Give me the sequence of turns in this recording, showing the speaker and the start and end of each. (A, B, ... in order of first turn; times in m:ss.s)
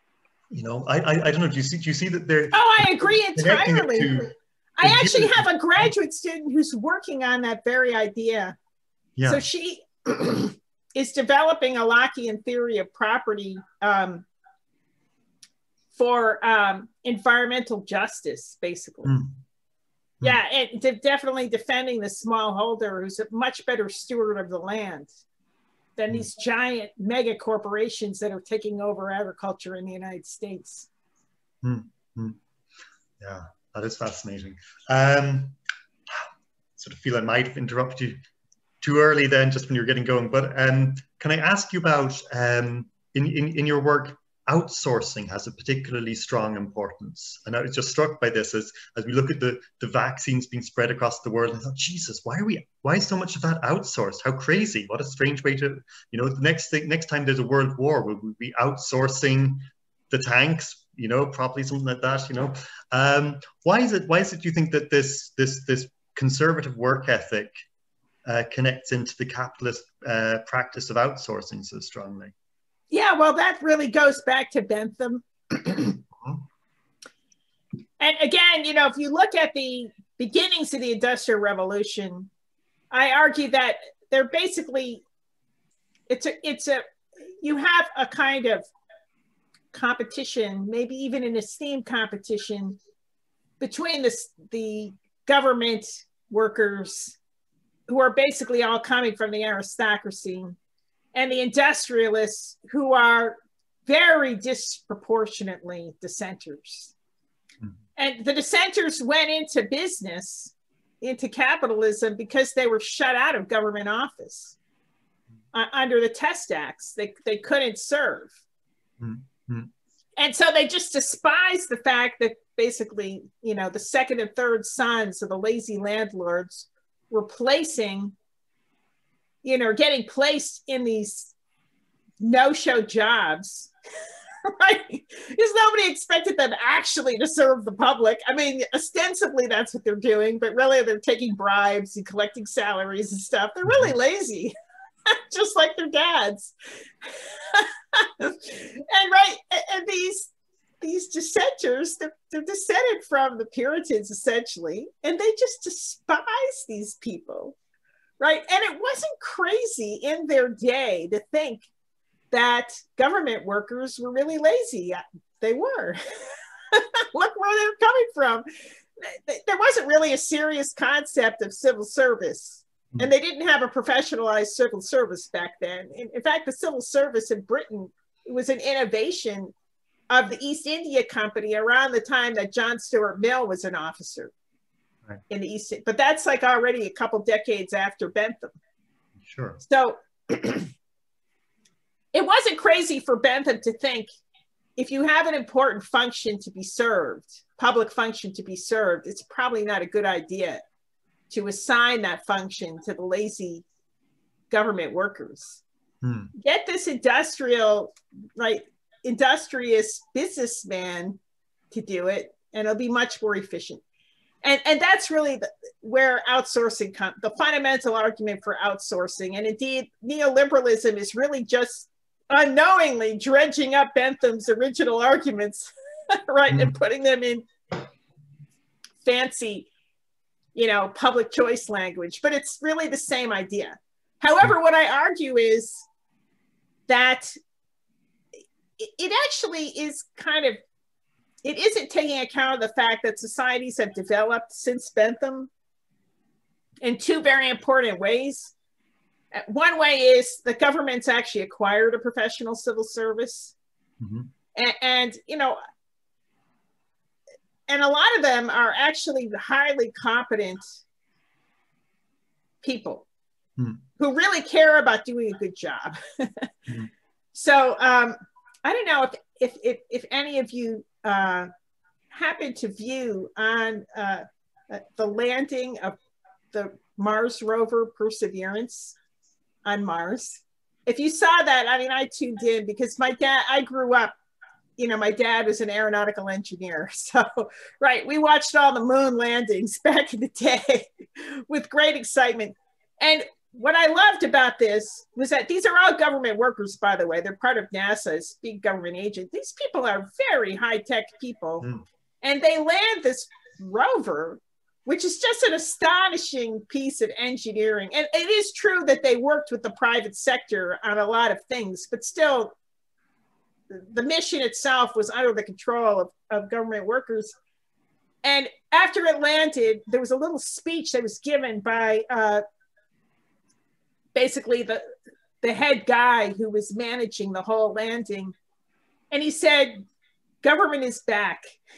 0:00.5-0:05.9 A
0:02.5-0:08.6 B
0:09.2-0:09.4 A
0:09.2-0:14.2 B
0:15.9-0:19.1 B
0:19.0-0:19.4 A
0:20.2-0:25.1 B
0:26.0-0:30.9 B
0:31.6-0:32.4 A
0:33.2-0:35.6 A
0:36.8-0:38.2 A
0:38.8-1:07.6 A
1:08.2-1:12.3 A
1:12.9-1:16.0 B
1:18.0-1:22.3 B
1:22.9-1:25.0 B
1:26.1-1:26.8 B
1:27.4-1:28.7 B
1:29.7-1:32.8 B
1:33.6-1:37.2 B
1:37.9-1:40.6 B
1:41.1-1:46.9 B
1:48.0-1:54.6 B
1:55.5-1:58.4 B
1:59.0-1:59.7 A
2:00.2-2:08.1 B
2:09.4-2:11.3 B
2:12.2-2:13.7 B
2:14.4-2:24.5 B
2:23.7-2:23.9 A
2:25.1-2:37.5 B
2:38.2-2:41.7 B
2:42.3-2:46.0 B
2:46.7-2:48.5 B
2:49.0-2:59.5 B
3:00.1-3:04.3 B
3:05.3-3:08.6 B
3:09.2-3:09.6 A
3:09.6-3:10.7 B
3:12.1-3:14.1 B
3:14.8-3:20.6 B
3:21.3-3:23.6 B
3:24.5-3:25.6 B
3:26.0-3:26.3 A
3:26.3-3:31.2 B
3:31.7-3:33.8 B
3:34.4-3:47.4 B
3:46.5-3:46.8 A
3:49.0-3:49.7 B
3:50.5-3:55.8 B
3:56.9-3:57.3 B
3:58.8-4:00.6 B
4:01.4-4:05.5 B
4:06.8-4:08.5 B
4:09.3-4:13.5 B
4:14.0-4:14.3 A
4:14.5-4:15.6 B
4:17.7-4:20.7 B
4:22.6-4:23.0 B
4:23.6-4:23.8 A
4:24.0-4:26.5 B
4:27.3-4:31.5 B
4:32.1-4:36.0 B
4:36.5-4:39.0 B
4:39.6-4:44.1 B
4:44.8-5:01.6 B
5:02.2-5:12.5 B
5:13.7-5:17.4 B
5:18.2-5:22.4 B
5:24.1-5:24.8 B
5:25.4-5:28.3 B
5:29.1-5:29.8 B
5:30.4-5:31.4 B